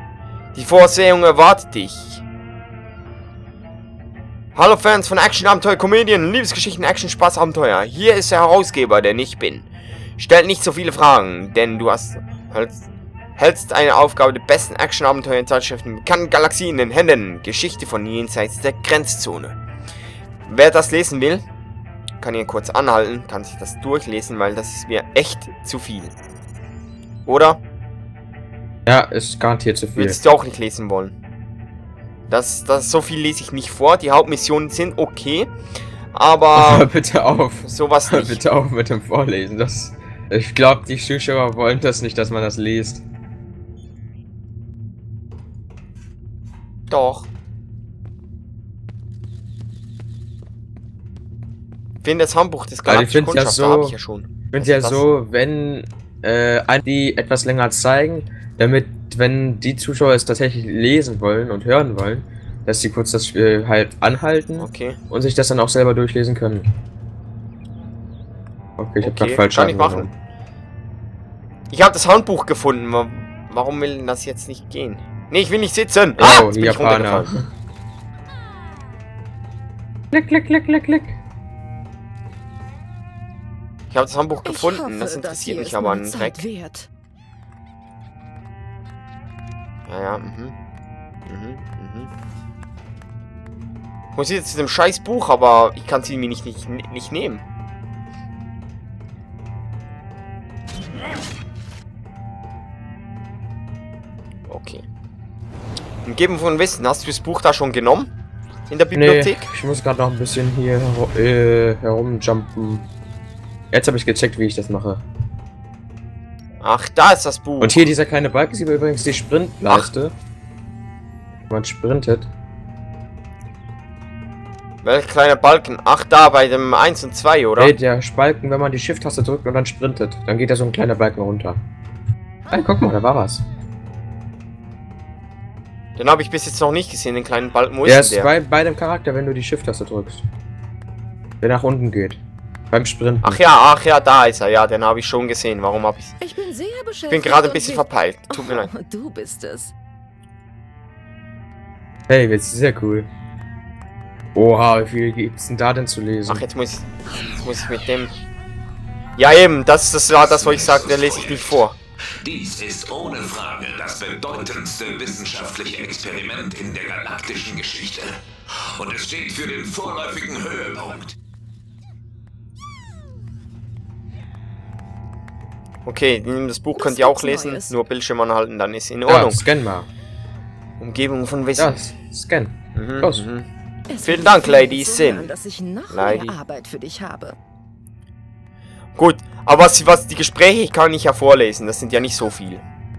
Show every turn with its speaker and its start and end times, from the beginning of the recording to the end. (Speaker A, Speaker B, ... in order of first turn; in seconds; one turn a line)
Speaker A: 0.5-2.2
Speaker A: 4.5-9.7
Speaker A: 10.2-12.8
Speaker A: 13.4-19.5
Speaker A: 20.5-21.4
Speaker A: 22.2-26.1
Speaker A: 27.2-27.6
Speaker B: 28.9-30.2
Speaker A: 29.9-31.1
Speaker A: 32.3-35.5
Speaker A: 36.1-36.9
Speaker B: 36.5-43.0
Speaker A: 37.6-38.4
Speaker A: 46.9-47.3
Speaker A: 52.0-55.0
Speaker B: 52.9-54.0
Speaker B: 54.5-66.7
Speaker A: 64.6-65.0
Speaker B: 68.8-70.1
Speaker A: 69.0-70.1
Speaker A: 71.7-77.3
Speaker B: 76.2-77.4
Speaker B: 80.1-81.2
Speaker A: 83.9-86.4
Speaker C: 84.4-86.9
Speaker A: 89.9-90.5
Speaker A: 91.2-92.1
Speaker A: 94.2-97.4
Speaker A: 104.5-104.8
Speaker A: 106.0-108.1
Speaker A: 108.7-109.5
Speaker B: 108.9-112.8
Speaker B: 113.7-115.0
Speaker A: 116.6-117.9
Speaker B: 117.6-120.1
Speaker B: 121.5-122.3
Speaker A: 124.8-127.7
Speaker B: 127.6-131.6
Speaker B: 132.5-133.4
Speaker A: 136.0-138.3
Speaker B: 137.8-140.2
Speaker B: 141.4-142.2
Speaker B: 142.7-143.4
Speaker A: 143.2-146.1
Speaker C: 146.2-149.7
Speaker A: 147.1-148.7
Speaker B: 152.1-153.1
Speaker B: 154.3-156.4
Speaker A: 156.3-158.1
Speaker A: 159.2-161.7
Speaker D: 160.2-161.6
Speaker D: 162.2-171.1
Speaker A: 175.8-179.4
Speaker C: 176.7-177.8
Speaker B: 179.1-179.9
Speaker A: 180.8-181.7
Speaker B: 181.6-183.3
Speaker A: 182.7-183.5
Speaker C: 183.9-187.3
Speaker A: 184.0-185.3
Speaker A: 185.9-186.4
Speaker A: 188.9-192.6